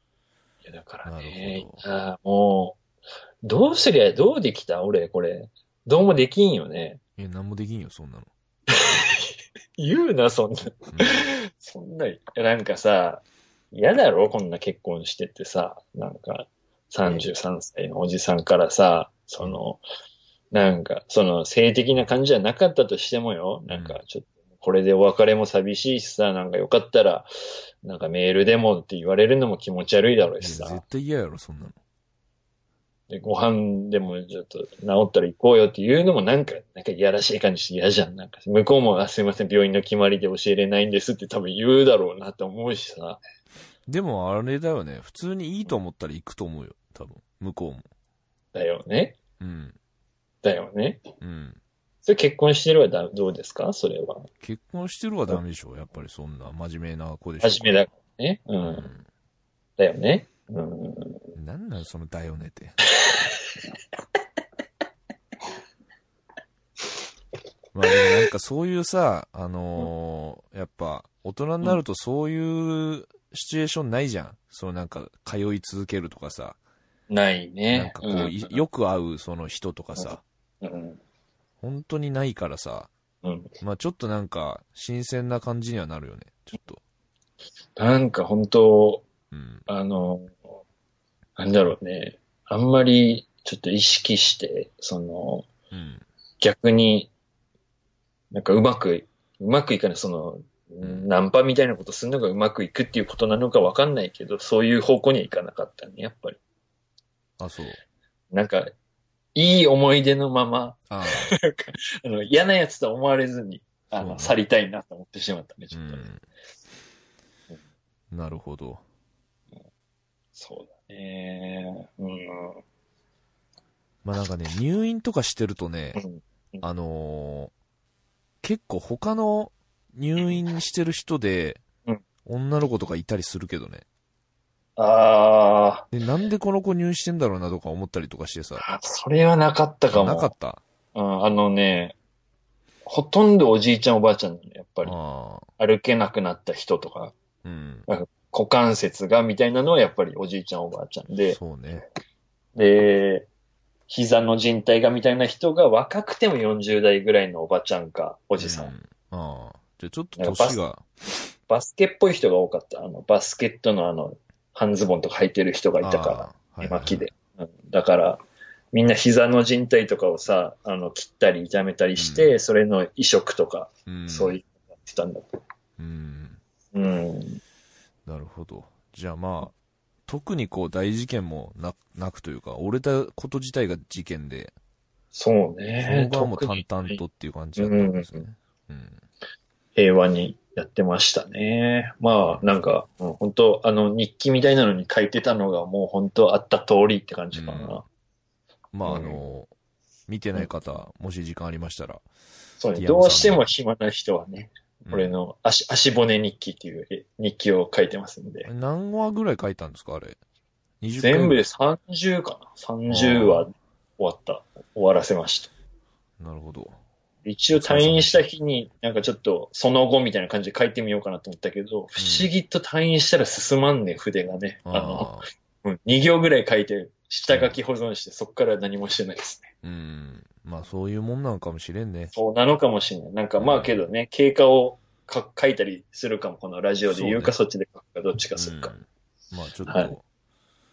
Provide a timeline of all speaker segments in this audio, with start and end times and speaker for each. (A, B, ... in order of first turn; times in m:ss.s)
0:00.6-0:02.8 A
0:01.0-0:01.8 B
0:03.4-0:07.0 A
0:07.2-0:08.3 B
0:08.7-0:19.8 A
0:10.9-0:11.2 B
0:20.5-0:27.3 A
0:23.7-0:24.0 B
0:27.8-0:30.8 A
0:30.4-0:31.8 B
0:33.1-0:43.2 A
0:43.9-0:47.9 B
0:48.5-0:49.2 A
0:49.4-0:49.8 B
0:50.4-0:51.0 A
0:51.2-0:51.6 B
0:52.0-0:54.3 A
0:54.4-0:57.9 B
0:57.4-0:58.9 A
0:58.6-0:59.0 B
0:59.8-1:01.2 A
1:01.3-1:02.8 B
1:07.7-1:16.6 B
1:17.1-1:18.6 A
1:17.7-1:20.2 B
1:20.0-1:21.0 A
1:21.6-1:22.9 B
1:23.2-1:23.5 A
1:23.6-1:26.8 B
1:27.8-1:29.0 A
1:29.3-1:29.6 B
1:29.7-1:30.3 A
1:31.4-1:35.5 A
1:35.7-1:36.0 B
1:36.4-1:37.1 A
1:38.3-1:46.4 A
1:40.8-1:41.1 B
1:47.4-1:47.8 B
1:48.3-1:48.7 A
1:49.3-1:56.1 A
1:50.9-1:51.3 B
1:53.9-1:54.3 B
1:55.7-1:56.2 B
1:58.1-1:58.8 B
2:00.3-2:02.6 A
2:04.0-2:06.0 B
2:06.0-2:06.6 A
2:06.6-2:07.5 B
2:08.4-2:11.6 B
2:12.2-2:13.8 B
2:14.8-2:15.9 A
2:15.9-2:18.6 B
2:18.6-2:20.3 A
2:19.9-2:20.6 B
2:20.9-2:22.0 A
2:22.8-2:25.0 A
2:24.8-2:25.4 B
2:25.6-2:27.1 A
2:27.4-2:27.9 B
2:27.9-2:31.4 A
2:31.3-2:31.8 B
2:32.6-2:33.3 A
2:33.9-2:38.7 A
2:38.4-2:40.8 B
2:40.2-2:40.6 A
2:41.5-2:48.2 A
2:45.8-2:47.1 B
2:48.7-2:55.3 A
2:52.0-2:52.3 B
2:53.9-2:54.4 B
2:55.8-2:56.4 B
2:56.7-2:57.4 A
2:58.0-2:59.5 B
3:00.1-3:04.5 B
3:05.1-3:07.0 A
3:05.8-3:09.0 B
3:07.6-3:08.2 A
3:09.8-3:17.8 A
3:17.3-3:17.8 B
3:18.7-3:19.5 B
3:18.8-3:19.2 A
3:20.1-3:22.0 B
3:22.6-3:28.5 A
3:22.7-3:23.5 B
3:24.9-3:25.1 B
3:28.4-3:30.2 B
3:30.8-3:31.4 B
3:31.0-3:35.5 A
3:32.9-3:33.5 B
3:36.2-3:36.8 B
3:37.2-3:49.5 A
3:37.5-3:38.2 B
3:42.0-3:42.3 B
3:44.6-3:45.3 B
3:49.6-3:52.1 B
3:52.1-3:58.7 A
3:53.4-3:53.8 B
3:56.9-3:57.3 B
3:58.4-4:00.0 B
3:59.6-3:59.9 A